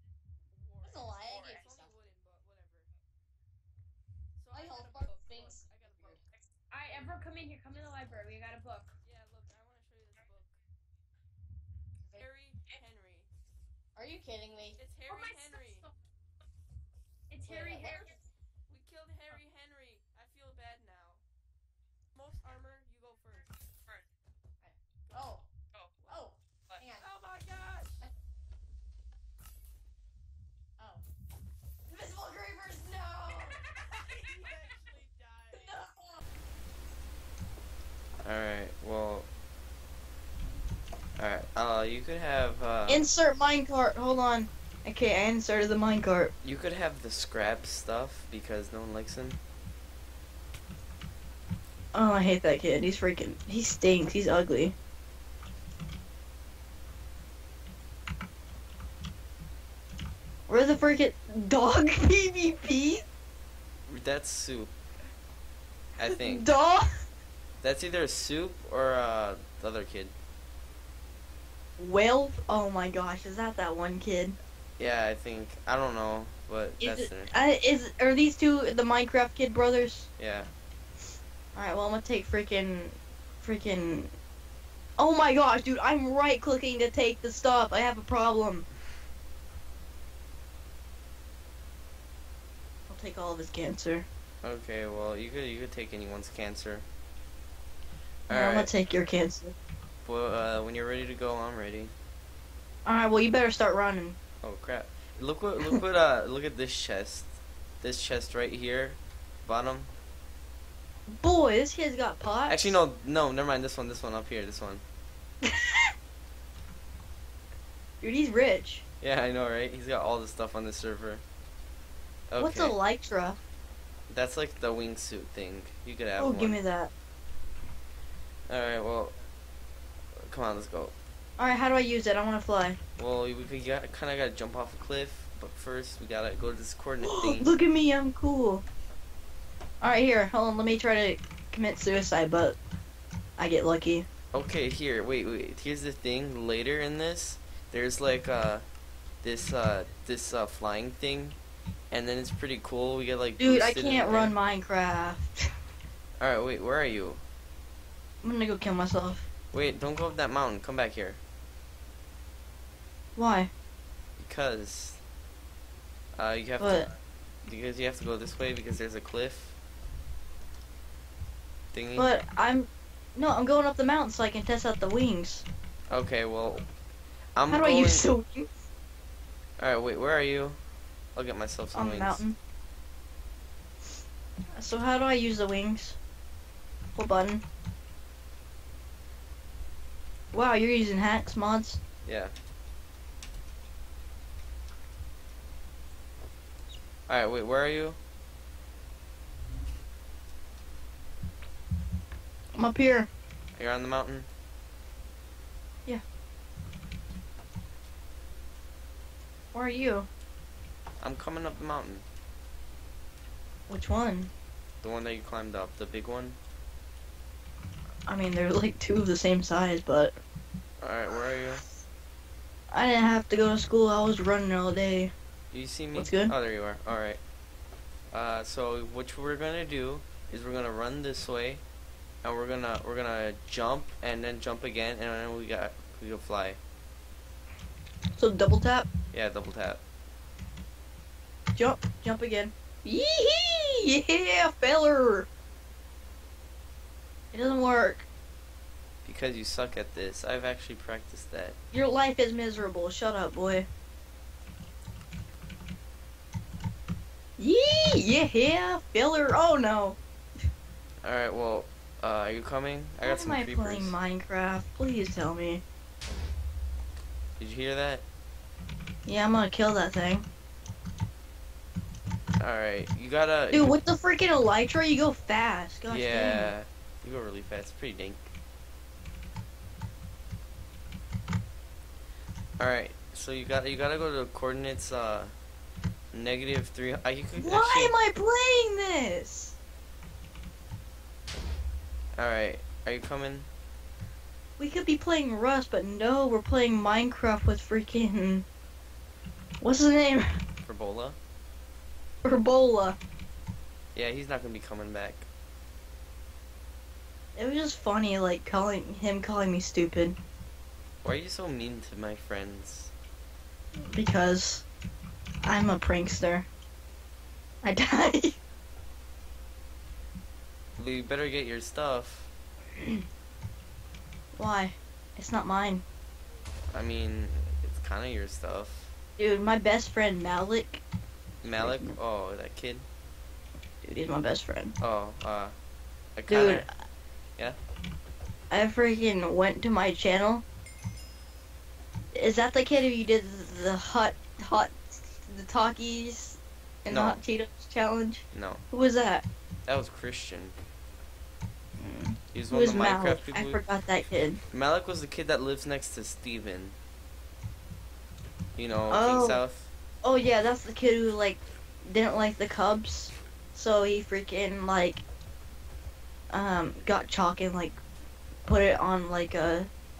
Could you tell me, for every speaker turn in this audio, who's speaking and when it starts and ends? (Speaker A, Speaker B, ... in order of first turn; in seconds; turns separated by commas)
Speaker A: 0.5-2.9, Speaker B: 0.8-1.9, Speaker A: 4.4-6.2, Speaker B: 4.5-6.2, Speaker C: 6.7-9.0, Speaker A: 9.0-10.6, Speaker A: 12.2-13.3, Speaker B: 14.0-14.8, Speaker A: 14.8-15.9, Speaker C: 15.1-15.9, Speaker C: 17.3-18.2, Speaker B: 17.4-18.1, Speaker A: 17.8-18.1, Speaker A: 18.7-21.2, Speaker A: 22.2-23.5, Speaker B: 24.6-25.5, Speaker A: 25.1-25.4, Speaker A: 26.0-28.1, Speaker B: 26.1-27.1, Speaker B: 30.8-31.0, Speaker B: 31.9-33.6, Speaker A: 33.7-35.8, Speaker B: 35.5-36.2, Speaker D: 38.2-39.3, Speaker D: 41.2-43.1, Speaker E: 42.9-46.3, Speaker D: 46.4-49.4, Speaker E: 51.9-54.8, Speaker E: 60.5-63.0, Speaker D: 63.9-64.8, Speaker D: 66.0-66.5, Speaker E: 66.0-66.9, Speaker D: 67.6-70.2, Speaker E: 71.8-74.4, Speaker D: 74.8-77.3, Speaker E: 76.8-80.1, Speaker D: 80.2-80.5, Speaker E: 81.5-84.1, Speaker E: 85.0-88.7, Speaker E: 92.9-94.1, Speaker D: 94.4-96.9, Speaker D: 98.3-98.7, Speaker E: 98.3-99.6, Speaker D: 100.0-101.9, Speaker E: 102.8-104.2, Speaker D: 104.4-109.9, Speaker E: 111.1-112.8, Speaker D: 112.5-114.8, Speaker E: 115.4-115.9, Speaker E: 118.0-118.8, Speaker D: 119.0-121.2, Speaker D: 122.3-122.8, Speaker E: 122.4-123.4, Speaker D: 124.1-126.6, Speaker E: 126.2-126.9, Speaker D: 128.5-129.2, Speaker D: 130.2-130.9, Speaker E: 131.4-132.8, Speaker D: 133.0-137.5, Speaker E: 137.0-138.6, Speaker E: 139.8-142.6, Speaker E: 143.4-144.1, Speaker D: 144.3-148.7, Speaker D: 149.2-151.4, Speaker D: 151.9-154.4, Speaker E: 153.4-155.4, Speaker D: 156.2-157.2, Speaker E: 158.2-159.3, Speaker D: 159.5-161.2, Speaker E: 163.2-163.5, Speaker D: 164.2-165.0, Speaker D: 166.2-166.9, Speaker E: 166.6-166.9, Speaker D: 167.4-169.6, Speaker D: 171.7-172.1, Speaker E: 172.0-175.5, Speaker D: 175.9-176.7, Speaker D: 177.3-178.1, Speaker E: 177.5-178.5, Speaker D: 179.6-180.6, Speaker D: 181.2-182.2, Speaker E: 181.7-182.4, Speaker E: 184.6-186.0, Speaker E: 186.9-187.4, Speaker E: 190.3-191.8, Speaker D: 192.1-192.3, Speaker D: 197.1-198.0, Speaker E: 202.6-203.1, Speaker D: 203.6-204.3, Speaker E: 209.5-210.1, Speaker D: 211.0-212.1, Speaker E: 213.7-214.3, Speaker D: 214.8-216.4, Speaker E: 218.1-220.1, Speaker D: 220.8-221.6, Speaker E: 222.7-225.1, Speaker D: 225.5-227.2, Speaker E: 225.9-226.3, Speaker D: 228.1-231.6, Speaker D: 232.2-236.6, Speaker E: 238.2-238.9, Speaker D: 239.1-239.8, Speaker E: 241.6-245.3, Speaker E: 247.3-248.1, Speaker D: 249.0-251.6, Speaker E: 251.7-253.7, Speaker E: 257.4-260.0, Speaker D: 261.0-263.9, Speaker E: 263.0-265.6, Speaker D: 267.4-268.1, Speaker E: 269.1-270.3, Speaker D: 272.4-273.8, Speaker E: 273.5-276.5, Speaker D: 275.9-278.3, Speaker D: 282.6-285.4, Speaker D: 286.1-287.9, Speaker E: 287.4-289.6, Speaker D: 292.2-293.5, Speaker E: 294.6-298.4, Speaker E: 299.6-300.3, Speaker D: 300.6-301.2, Speaker E: 302.2-303.0, Speaker D: 303.9-305.3, Speaker E: 307.4-310.2, Speaker D: 311.0-312.9, Speaker E: 313.8-314.6, Speaker E: 315.4-316.5, Speaker E: 317.6-318.4, Speaker D: 320.8-322.3, Speaker E: 322.8-323.0, Speaker E: 324.3-325.8, Speaker D: 326.7-328.9, Speaker E: 329.2-330.8, Speaker D: 331.4-332.9, Speaker E: 331.6-332.0, Speaker E: 333.8-334.7, Speaker D: 334.8-335.6, Speaker D: 336.2-336.7, Speaker E: 336.3-336.7, Speaker E: 338.5-340.4, Speaker E: 342.1-349.2, Speaker D: 346.9-347.2, Speaker D: 348.3-348.6, Speaker D: 349.7-350.6, Speaker E: 351.8-354.4, Speaker D: 352.3-353.6, Speaker D: 354.5-356.8, Speaker D: 358.6-359.7, Speaker E: 358.9-359.4, Speaker E: 360.0-365.0, Speaker E: 366.3-367.8, Speaker E: 368.5-369.7